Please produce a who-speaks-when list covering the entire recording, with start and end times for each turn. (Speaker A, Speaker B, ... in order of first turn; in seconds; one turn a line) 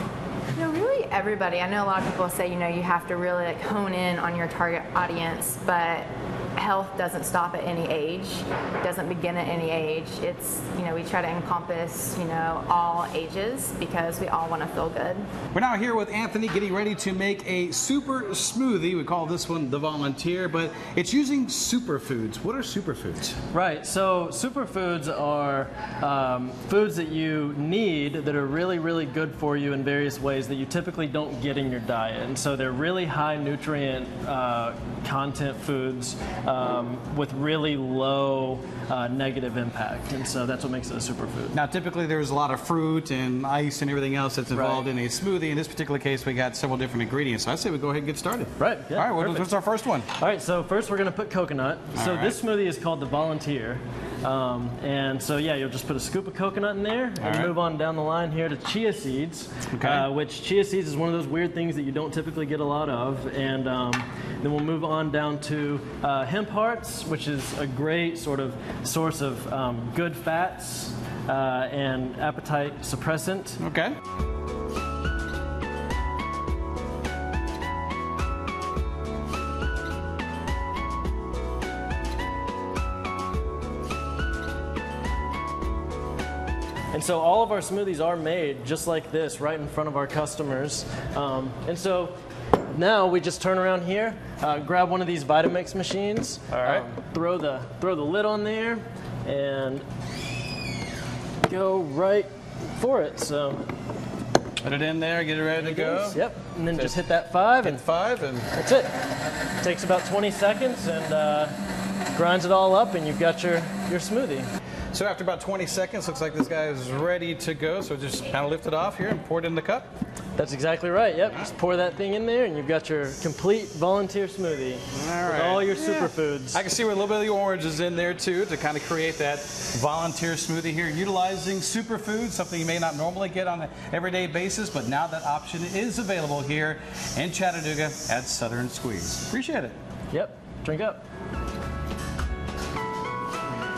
Speaker A: 0.5-15.3
Speaker B: 15.5-23.4
Speaker C: 23.5-41.5
Speaker B: 41.5-50.1
Speaker C: 44.5-44.9
Speaker C: 48.6-49.6
Speaker C: 50.2-73.6
Speaker B: 52.0-52.4
Speaker B: 57.2-57.5
Speaker B: 59.7-60.1
Speaker B: 73.6-74.0
Speaker C: 86.9-92.2
Speaker C: 92.7-99.8
Speaker C: 101.4-103.7
Speaker B: 104.6-106.2
Speaker C: 105.6-107.9
Speaker B: 106.7-107.0
Speaker B: 107.6-108.5
Speaker C: 108.5-108.9
Speaker C: 109.6-111.5
Speaker C: 112.1-114.5
Speaker B: 114.9-119.9
Speaker C: 120.4-126.6
Speaker B: 124.9-139.8
Speaker C: 140.1-141.0